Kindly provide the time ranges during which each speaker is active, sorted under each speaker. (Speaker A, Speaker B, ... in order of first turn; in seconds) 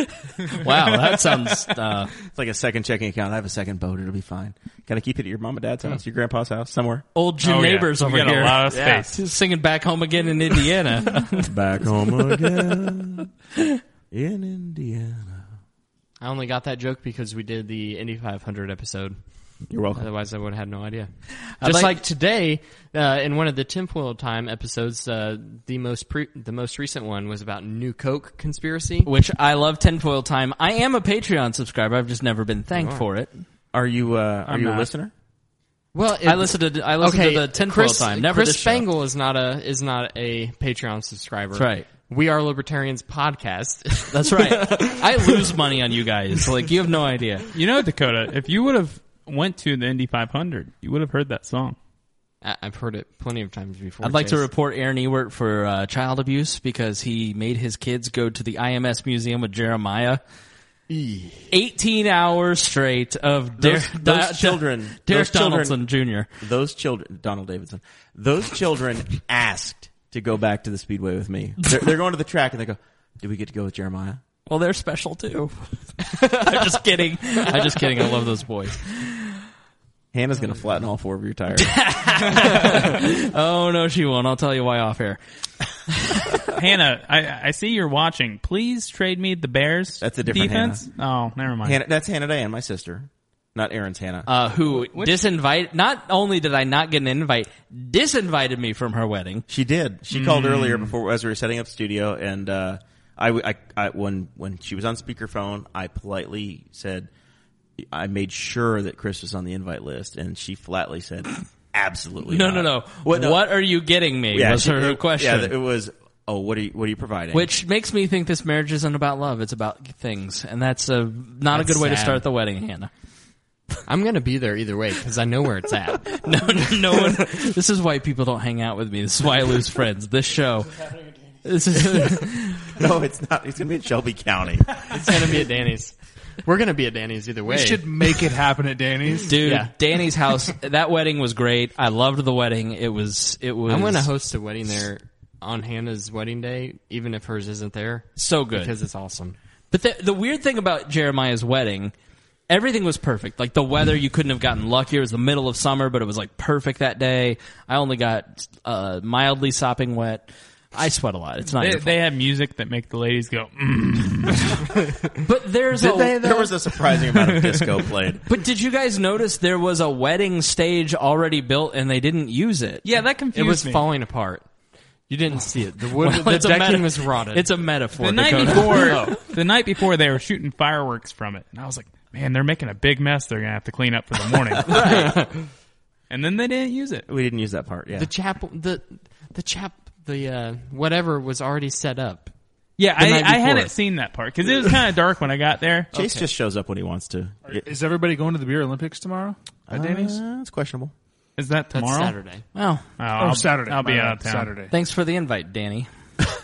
Speaker A: 0.3-2.1, 7.1-11.5, 21.6-22.0, 29.1-33.4, 36.2-38.9, 41.5-41.9, 44.1-47.5, 54.0-60.2, 61.5-66.3, 74.5-79.4, 81.6-85.2, 94.2-99.4, 112.3-115.5, 117.3-122.9, 126.1-130.8, 131.4-132.7, 139.3-144.1, 148.2-148.7, 149.7-151.9, 152.5-162.0, 165.2-166.5, 168.2-172.8, 176.0-179.2, 184.7-185.1, 202.5-202.8, 204.7-205.9
Speaker B: 2.2-7.0, 11.5-13.3, 14.1-15.5, 19.7-20.0, 33.7-35.1, 63.6-65.8, 66.4-74.2, 80.1-81.8, 90.0-90.8, 91.6-94.3, 99.5-107.1, 107.8-113.5, 114.3-117.5, 132.7-134.9, 165.7-168.2, 187.1-188.1, 195.9-197.6, 199.7-200.9
Speaker C: 7.4-9.2, 34.5-34.9, 47.5-51.8, 86.5-91.8, 94.9-95.2, 100.1-100.9, 161.6-164.7, 167.2-167.7, 172.8-173.8, 178.0-184.8, 186.1-187.1, 192.8-196.2, 201.4-202.2, 203.0-204.5
Speaker D: 16.2-19.2, 19.9-21.1, 21.6-29.1, 32.7-33.0, 35.9-45.5, 52.4-54.5, 60.9-61.5, 121.5-122.2, 123.8-127.2, 134.9-138.1, 139.4-139.7, 143.7-149.3, 173.3-174.5, 175.1-177.5, 184.7-185.5, 187.9-192.3, 193.0-193.7, 201.7-202.4
Speaker E: 137.5-139.5, 197.5-200.2, 203.2-204.7